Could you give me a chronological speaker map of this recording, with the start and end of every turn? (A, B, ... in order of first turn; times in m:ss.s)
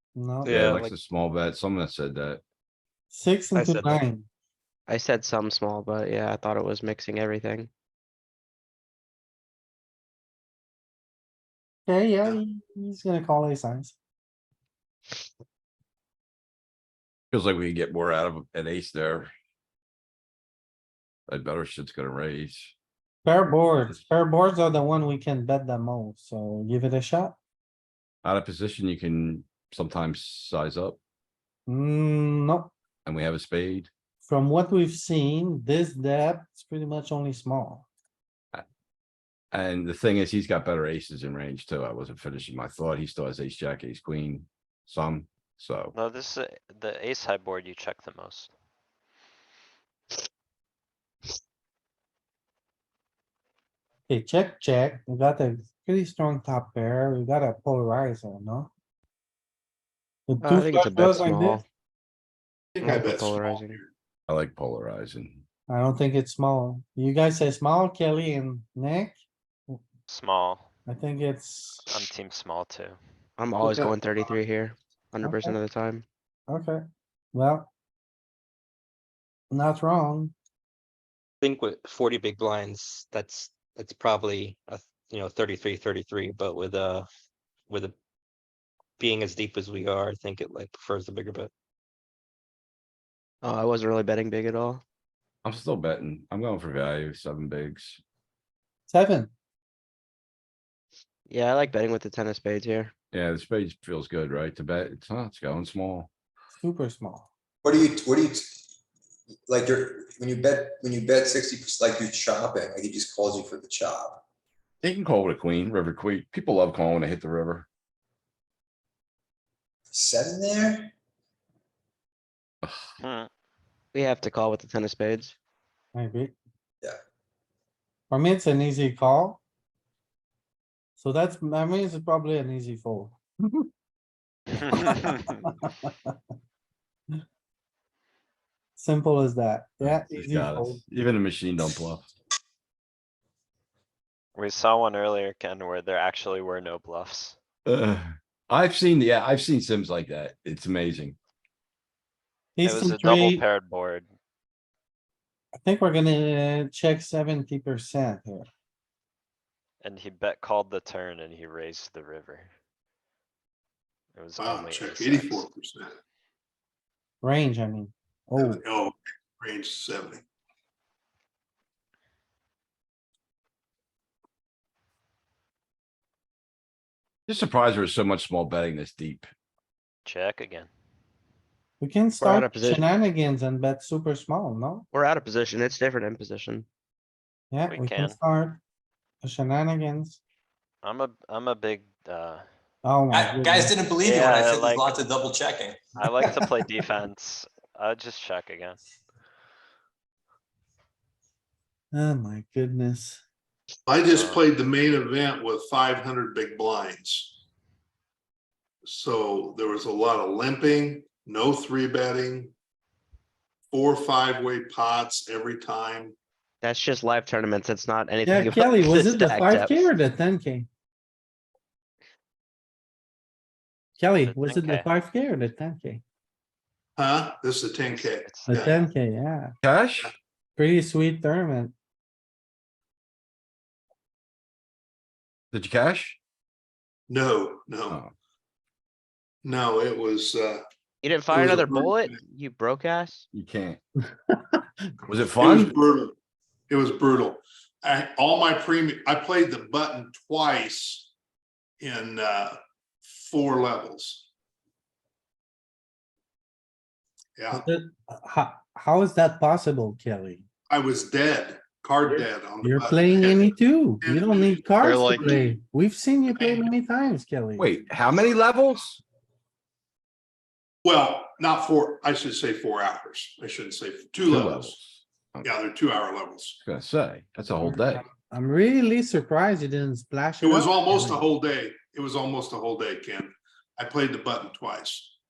0:00.2-0:00.7 A
0:00.4-0:02.4 B
0:00.4-0:00.9 C
0:03.1-0:04.3 A
0:03.6-0:04.0 C
0:04.9-0:07.7 D
0:11.9-0:14.0 A
0:17.3-0:19.3 B
0:21.3-0:22.8 B
0:23.2-0:27.4 A
0:28.2-0:31.0 B
0:31.7-0:32.7 A
0:33.1-0:33.9 B
0:34.2-0:37.9 A
0:39.5-0:46.0 B
0:45.9-0:48.5 E
0:54.1-0:58.7 A
1:00.3-1:01.6 A
1:00.4-1:01.6 D
1:02.8-1:03.9 F
1:02.8-1:03.8 D
1:04.3-1:05.4 B
1:05.7-1:09.8 A
1:10.1-1:10.7 E
1:10.9-1:12.1 A
1:11.9-1:13.0 E
1:13.4-1:16.0 D
1:15.2-1:15.6 A
1:16.5-1:17.7 A
1:19.5-1:20.3 A
1:21.4-1:27.1 C
1:27.7-1:28.0 C
1:29.0-1:31.5 C
1:33.4-1:34.8 D
1:35.4-1:38.0 B
1:38.9-1:39.3 A
1:41.3-1:42.9 D
1:43.1-1:46.1 B
1:46.5-1:47.3 A
1:47.6-1:48.6 G
1:49.5-1:54.2 G
1:54.8-1:57.7 B
1:59.9-2:00.9 G
2:03.0-2:03.3 E
2:03.9-2:05.4 D
2:05.9-2:06.3 A
2:08.1-2:09.4 A
2:11.0-2:13.7 A
2:14.7-2:15.3 E
2:14.9-2:15.9 A
2:18.8-2:20.8 A
2:19.8-2:22.1 B
2:24.4-2:27.4 E
2:27.7-2:31.2 B
2:32.6-2:33.4 A
2:32.6-2:34.1 E
2:35.6-2:38.5 A
2:39.8-2:42.5 E
2:44.1-2:45.4 E
2:44.4-2:46.0 F
2:47.2-2:48.6 A
2:48.4-2:50.2 F
2:57.3-2:59.3 B
3:00.1-3:00.7 E
3:01.8-3:04.9 A
3:02.2-3:02.8 D
3:04.9-3:06.7 D
3:07.5-3:08.6 A
3:07.7-3:08.2 E
3:09.2-3:10.2 A
3:10.8-3:12.4 E
3:12.8-3:13.8 A
3:13.1-3:15.8 G
3:14.0-3:15.0 E
3:16.0-3:18.8 E
3:21.9-3:23.2 A
3:23.9-3:27.4 F
3:24.1-3:24.4 E
3:28.8-3:32.5 F
3:33.7-3:36.2 F
3:36.6-3:39.9 D
3:38.2-3:40.7 A
3:44.0-3:46.0 A
3:44.2-3:44.9 E
3:47.0-3:48.8 F
3:47.9-3:48.9 E
3:48.5-3:49.5 A
3:49.6-3:50.1 B
3:50.6-3:51.7 A
3:55.5-3:56.2 B
3:57.1-3:58.0 F
3:57.9-3:58.1 B
3:59.4-4:00.6 F
4:01.0-4:03.3 D
4:01.3-4:02.2 F
4:03.3-4:03.8 B
4:05.1-4:05.7 B
4:05.4-4:06.1 F
4:06.7-4:11.1 F
4:11.8-4:14.3 F
4:17.4-4:17.6 F
4:17.5-4:20.4 A
4:20.7-4:25.6 F
4:22.6-4:27.7 A
4:26.3-4:26.7 F
4:27.6-4:29.0 B
4:30.8-4:34.8 F
4:34.2-4:35.5 B
4:35.4-4:36.6 F
4:36.6-4:38.1 B
4:37.6-4:41.2 A
4:40.4-4:45.2 F